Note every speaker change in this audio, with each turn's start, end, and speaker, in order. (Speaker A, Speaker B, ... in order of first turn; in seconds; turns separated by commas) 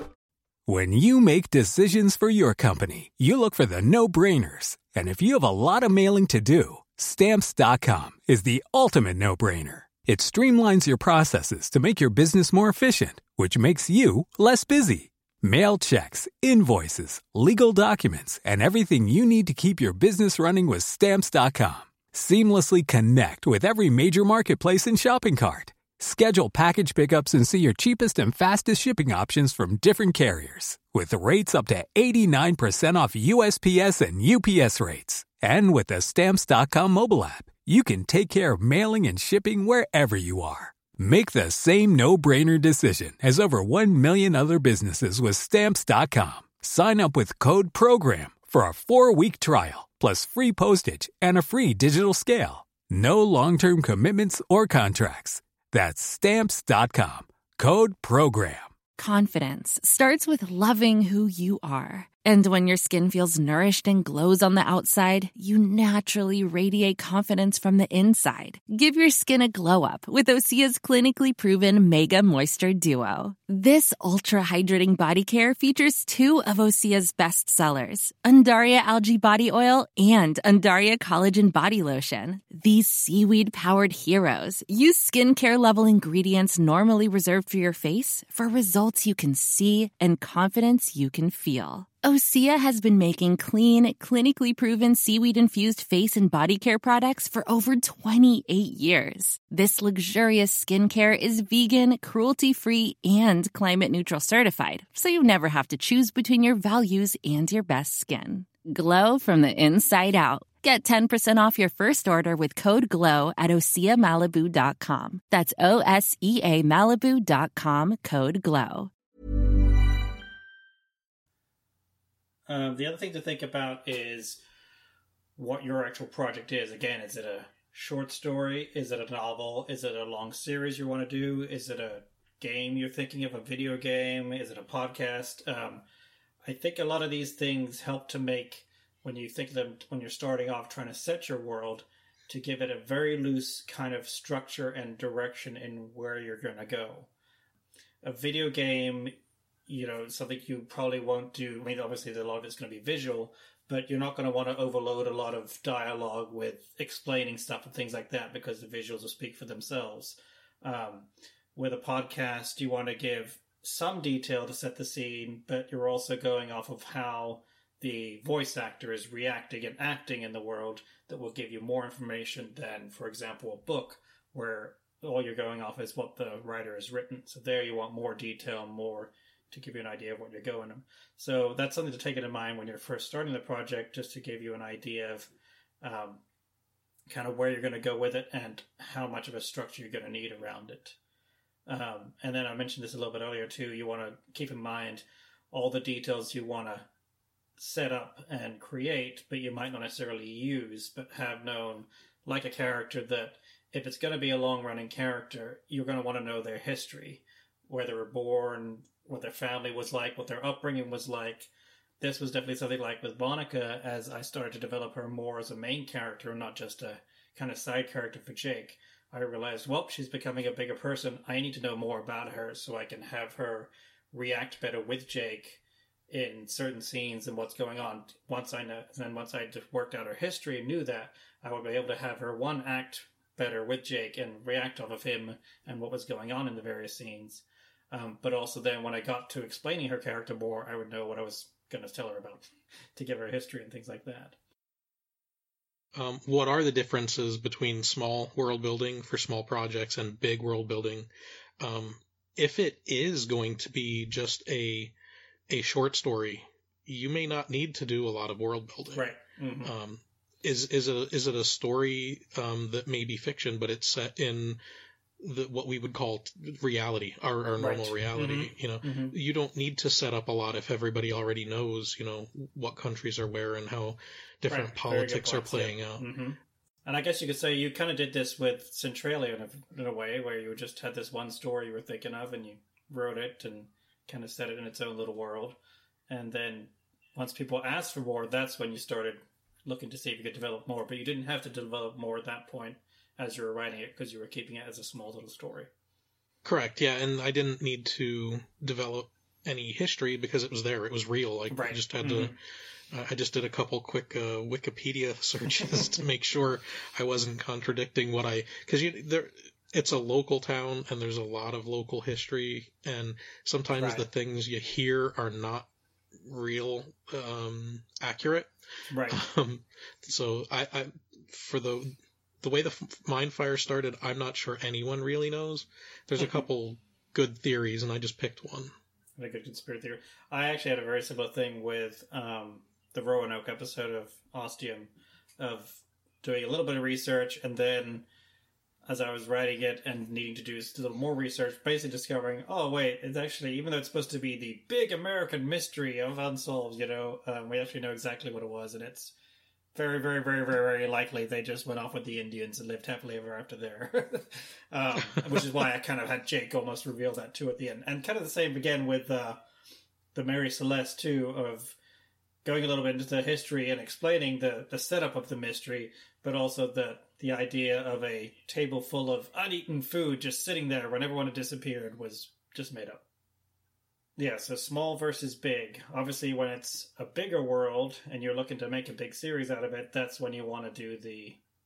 Speaker A: 0.7-58.7, Speaker B: 59.0-118.9, Speaker C: 122.5-124.4, Speaker C: 125.3-135.8, Speaker C: 136.4-147.1, Speaker C: 148.0-149.1, Speaker C: 149.7-185.3, Speaker C: 185.8-186.2, Speaker C: 187.1-191.0, Speaker C: 191.7-196.9, Speaker C: 197.6-242.4, Speaker C: 242.9-244.4, Speaker D: 245.9-251.1, Speaker D: 251.6-254.9, Speaker D: 255.5-259.1, Speaker C: 258.9-259.7, Speaker D: 259.6-264.6, Speaker D: 265.2-276.1, Speaker C: 267.6-269.1, Speaker C: 274.5-285.6, Speaker C: 286.1-295.7, Speaker D: 296.4-302.3, Speaker C: 301.5-302.3, Speaker D: 302.9-315.7, Speaker C: 313.7-314.1, Speaker D: 316.3-318.5, Speaker C: 318.9-319.2, Speaker D: 319.1-328.7, Speaker C: 329.1-338.1, Speaker C: 338.9-349.1, Speaker C: 349.7-359.4, Speaker C: 360.1-361.8, Speaker C: 362.4-373.0, Speaker C: 374.2-381.4